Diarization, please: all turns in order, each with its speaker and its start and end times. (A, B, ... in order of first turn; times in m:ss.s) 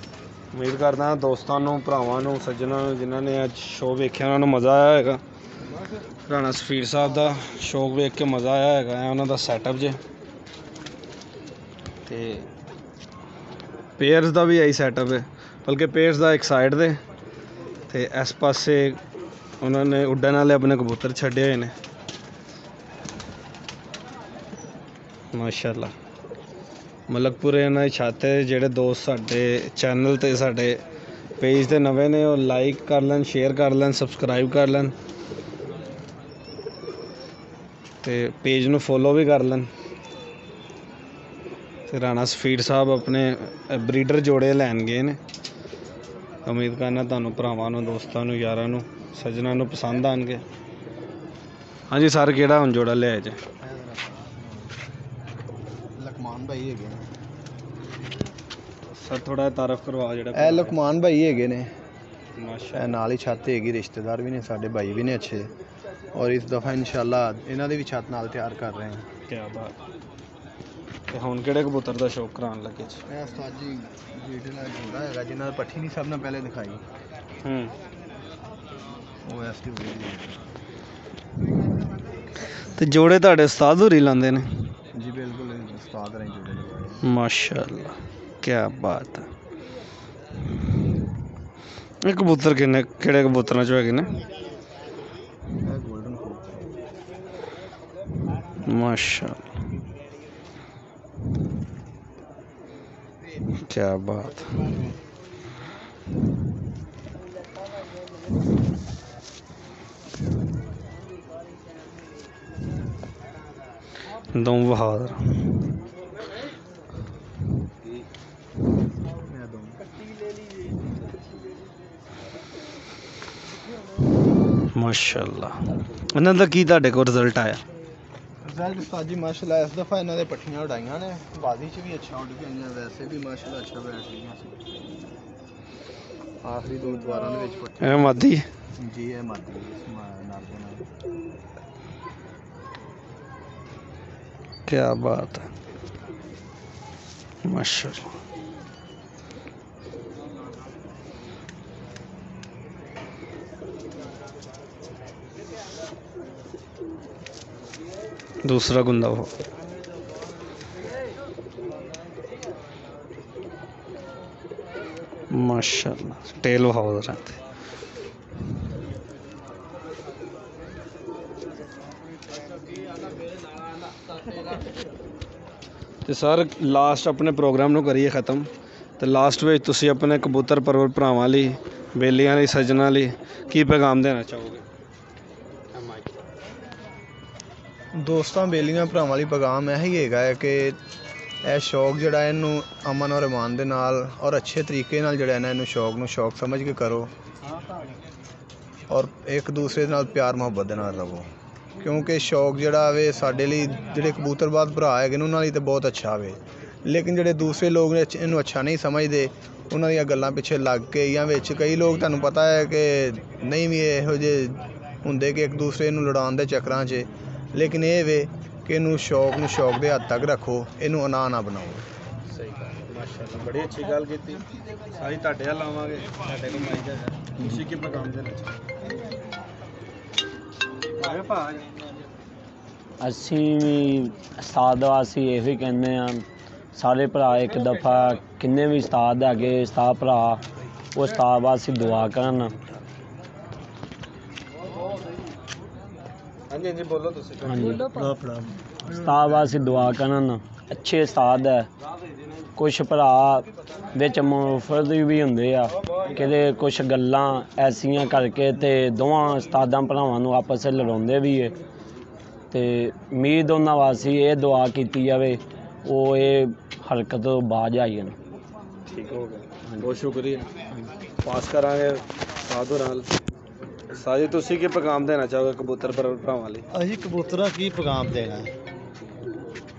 0:00.5-0:05.2 A
0:06.3-0:10.0 A
0:12.1-0:12.5 A
0:14.0-0:17.0 A
0:17.9-0:19.0 A
0:19.6-0:21.8 A
0:25.3-0:25.9 A
0:27.1-0:30.8 A
0:31.4-0:34.9 A
0:38.0-0:39.7 A
0:41.9-0:45.2 A
0:46.4-0:50.4 A
0:51.9-0:53.4 A
0:53.6-0:54.8 B
0:55.9-0:57.1 B
0:58.9-1:00.8 A
1:00.3-1:01.7 B
1:02.4-1:03.0 A
1:02.7-1:05.5 B
1:06.1-1:09.1 B
1:09.3-1:09.8 A
1:11.1-1:13.0 A
1:13.1-1:16.8 B
1:17.4-1:17.8 A
1:19.2-1:20.5 B
1:22.8-1:24.7 A
1:24.9-1:27.0 B
1:27.0-1:29.3 A
1:32.0-1:34.2 A
1:35.6-1:36.7 B
1:38.6-1:39.5 A
1:43.5-1:44.8 A
1:54.3-1:55.5 A
1:59.2-1:59.8 B
2:04.7-2:07.6 A
2:08.4-2:15.2 B
2:16.4-2:20.9 B
2:17.8-2:18.5 A
2:24.7-2:25.5 A
2:27.4-2:28.1 A
2:38.4-2:39.3 A
2:45.3-2:47.4 A
2:56.0-2:58.5 A
2:59.0-3:04.6 A
3:05.7-3:06.2 A
3:07.9-3:10.8 B
3:11.4-3:17.1 B
3:18.9-3:41.9 B
3:42.3-3:48.7 A
3:51.0-3:51.7 A
3:53.0-4:00.4 C
4:01.0-4:02.6 C
4:06.5-4:07.8 A
4:07.4-4:07.9 C
4:07.8-4:09.6 D
4:08.9-4:11.7 C
4:12.6-4:21.6 C
4:15.8-4:16.2 A
4:22.5-4:28.2 C
4:28.9-4:30.5 A
4:31.2-4:33.1 A
4:33.9-4:36.7 A
4:36.7-4:38.5 D